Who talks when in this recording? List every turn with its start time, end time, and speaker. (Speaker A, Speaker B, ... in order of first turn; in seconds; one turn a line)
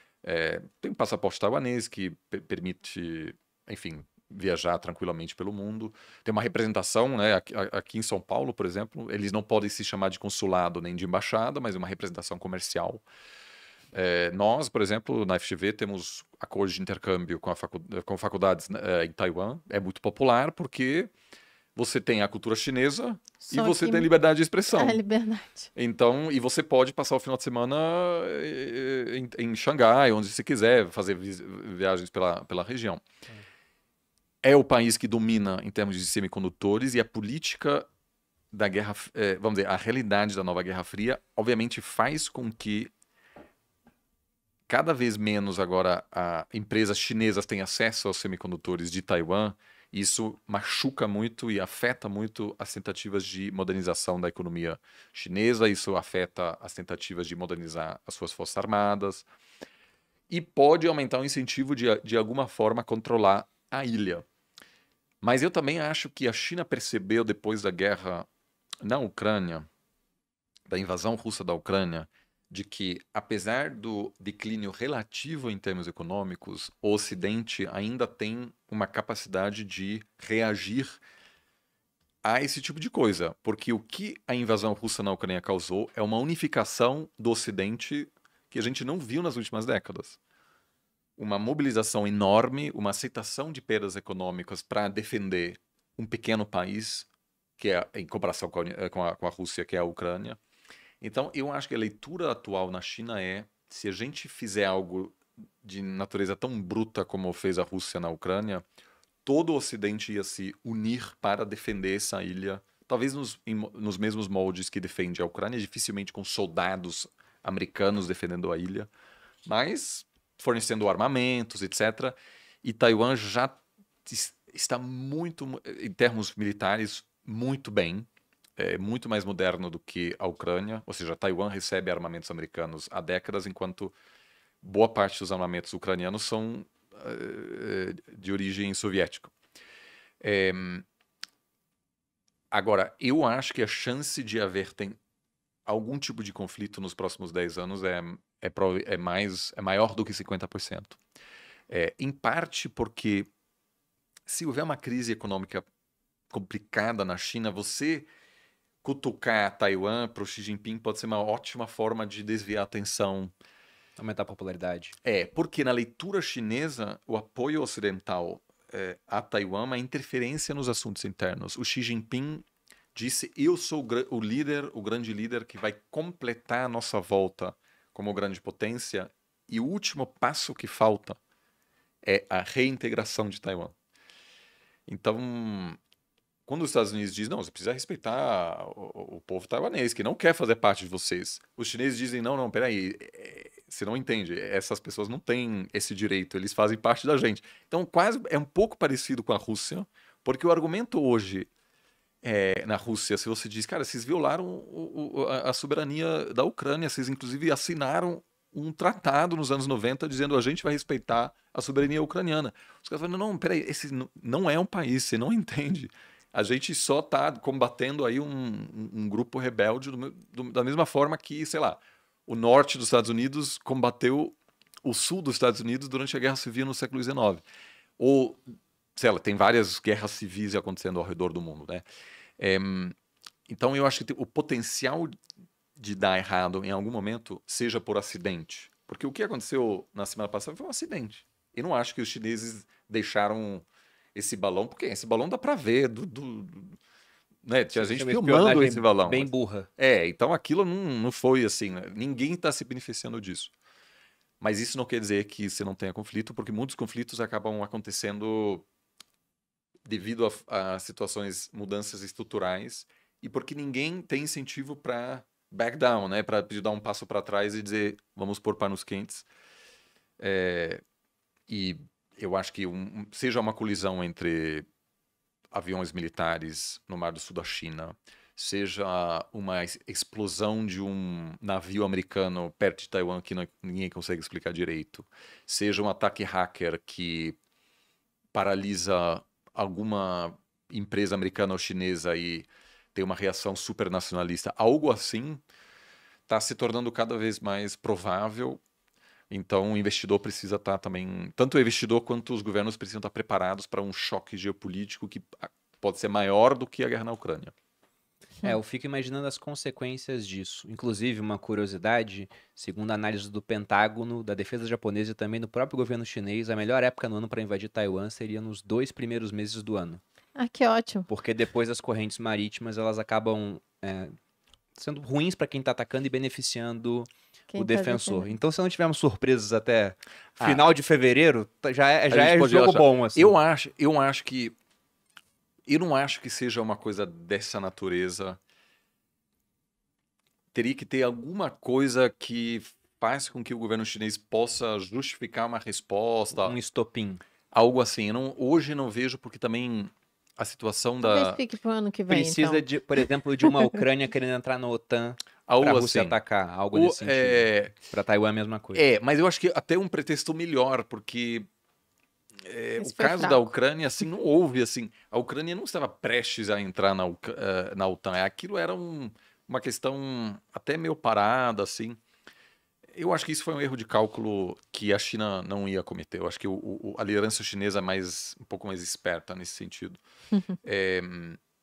Speaker A: 0.2-13.0
Speaker A: 13.9-21.1
Speaker A: 21.8-25.0
Speaker B: 23.4-24.1
Speaker B: 24.7-25.7
Speaker A: 25.7-33.0
Speaker A: 34.4-37.9
Speaker A: 38.5-42.9
Speaker A: 44.7-59.3
Speaker A: 60.3-64.2
Speaker A: 65.2-68.3
Speaker A: 68.8-69.7
Speaker A: 70.7-81.0
Speaker A: 82.2-90.2
Speaker A: 91.2-100.4
Speaker A: 101.0-108.6
Speaker A: 109.2-118.9
Speaker A: 119.5-133.9
Speaker A: 134.6-139.3
Speaker A: 140.2-140.8
Speaker A: 142.5-145.0
Speaker A: 145.7-151.0
Speaker A: 151.7-153.3
Speaker A: 154.3-155.6
Speaker A: 156.3-158.1
Speaker A: 158.8-163.3
Speaker C: 164.0-164.9
Speaker A: 165.0-181.2
Speaker A: 182.0-183.7
Speaker A: 184.9-185.8
Speaker A: 186.4-201.5
Speaker A: 202.2-227.4
Speaker A: 228.0-228.4
Speaker A: 228.9-231.8
Speaker A: 232.4-232.9
Speaker A: 233.5-235.1
Speaker A: 235.8-246.8
Speaker A: 247.4-253.5
Speaker C: 247.7-249.7
Speaker A: 254.4-258.6
Speaker A: 259.9-269.3
Speaker A: 270.2-270.8
Speaker A: 271.5-274.6
Speaker A: 275.5-287.4
Speaker A: 288.3-295.4
Speaker A: 296.3-298.6
Speaker A: 299.3-307.5
Speaker C: 308.4-320.0
Speaker B: 320.4-321.1
Speaker C: 321.1-324.1
Speaker C: 324.7-333.4
Speaker B: 327.5-328.3
Speaker A: 332.1-334.5
Speaker A: 335.7-338.4
Speaker A: 340.5-346.6
Speaker C: 346.3-347.2
Speaker A: 347.5-351.4
Speaker B: 351.0-352.6
Speaker C: 352.1-358.8
Speaker A: 355.5-356.2
Speaker A: 356.7-357.8
Speaker A: 358.7-361.4
Speaker A: 362.4-372.0
Speaker B: 362.8-363.4
Speaker A: 372.9-380.0
Speaker A: 380.6-381.4